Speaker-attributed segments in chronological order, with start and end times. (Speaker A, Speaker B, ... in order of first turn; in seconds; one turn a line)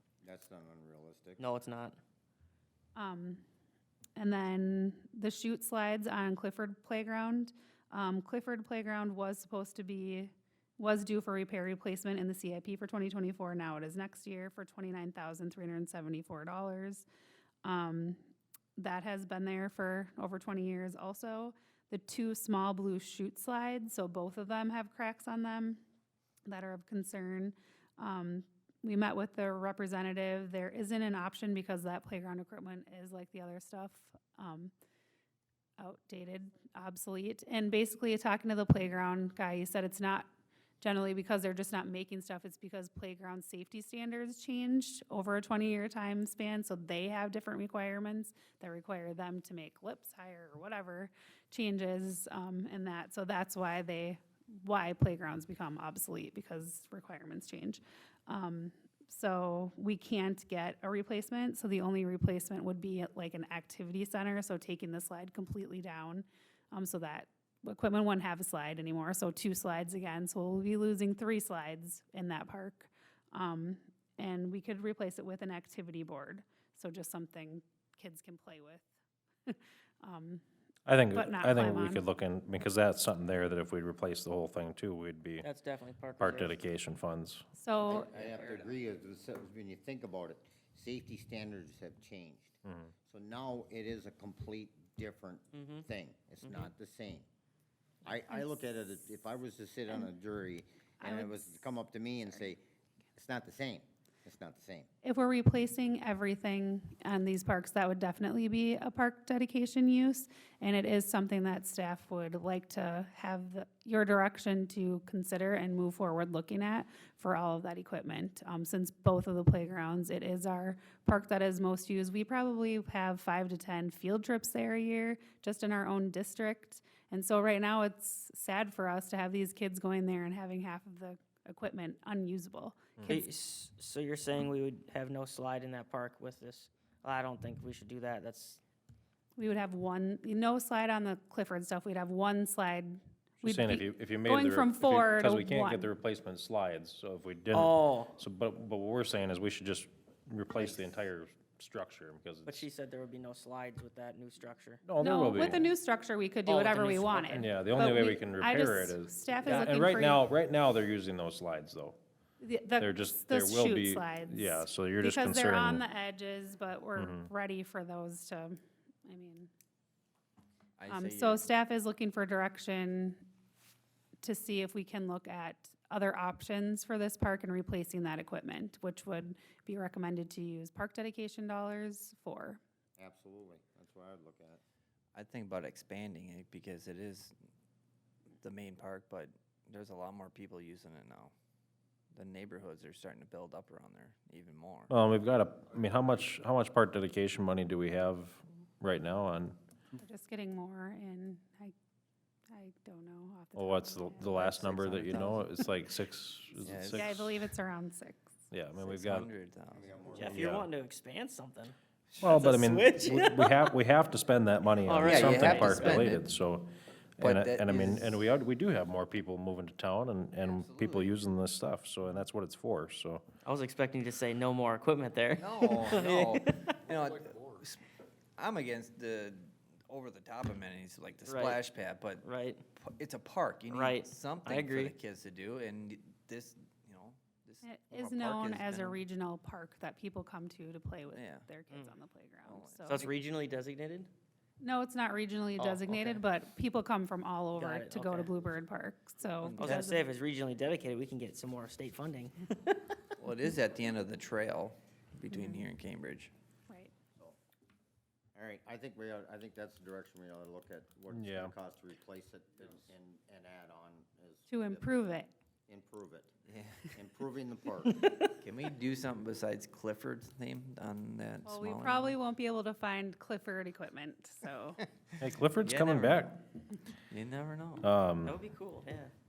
Speaker A: 0.2-1.4
Speaker B: 1.4-2.0
Speaker C: 3.0-3.4
Speaker C: 4.2-17.1
Speaker C: 17.6-18.2
Speaker C: 18.8-25.8
Speaker C: 26.5-34.7
Speaker C: 35.8-40.3
Speaker C: 40.8-78.9
Speaker C: 79.5-80.4
Speaker D: 80.9-85.5
Speaker C: 81.1-82.0
Speaker B: 85.4-86.6
Speaker D: 86.2-87.5
Speaker C: 87.5-88.1
Speaker A: 87.9-97.3
Speaker D: 92.7-92.9
Speaker B: 95.5-95.8
Speaker A: 98.0-102.6
Speaker C: 101.0-101.7
Speaker A: 103.2-104.9
Speaker C: 105.0-133.2
Speaker D: 133.0-133.2
Speaker B: 133.1-138.6
Speaker C: 139.4-145.9
Speaker D: 143.4-152.7
Speaker B: 147.5-148.2
Speaker B: 152.5-154.8
Speaker D: 154.8-155.7
Speaker C: 155.0-160.2
Speaker B: 156.5-157.5
Speaker D: 157.3-162.0
Speaker C: 162.4-169.5
Speaker D: 162.8-165.8
Speaker D: 167.0-167.3
Speaker E: 170.8-171.4
Speaker C: 170.9-173.2
Speaker C: 174.2-182.6
Speaker A: 183.0-184.6
Speaker E: 185.2-187.3
Speaker E: 188.4-191.3
Speaker E: 192.2-194.9
Speaker D: 194.9-199.6
Speaker C: 200.0-201.8
Speaker C: 202.5-205.4
Speaker D: 203.6-207.4
Speaker E: 206.6-207.2
Speaker C: 207.0-208.3
Speaker D: 208.5-209.3
Speaker E: 208.8-210.4
Speaker A: 209.7-210.5
Speaker B: 210.1-213.7
Speaker D: 210.3-210.7
Speaker D: 212.2-223.2
Speaker B: 214.8-216.1
Speaker E: 215.0-216.3
Speaker E: 217.2-218.2
Speaker E: 220.4-221.2
Speaker B: 223.4-226.8
Speaker E: 225.3-227.8
Speaker E: 228.4-232.2
Speaker B: 231.2-231.6
Speaker B: 232.2-232.6
Speaker E: 232.8-239.0
Speaker B: 233.7-234.9
Speaker C: 237.6-243.0
Speaker E: 241.1-241.5
Speaker E: 242.4-243.2
Speaker B: 242.8-244.1
Speaker C: 244.6-250.1
Speaker B: 245.6-246.2
Speaker B: 247.6-248.3
Speaker E: 249.4-249.9
Speaker B: 249.6-253.0
Speaker E: 253.2-256.3
Speaker C: 255.3-255.6
Speaker A: 258.4-264.9
Speaker D: 261.1-261.5
Speaker C: 264.5-265.3
Speaker A: 265.7-266.4
Speaker E: 266.5-266.9
Speaker A: 266.9-268.0
Speaker E: 268.4-272.2
Speaker C: 271.4-274.8
Speaker D: 275.2-276.4
Speaker E: 275.6-276.3
Speaker E: 277.1-277.9
Speaker D: 277.8-278.4
Speaker B: 278.2-279.1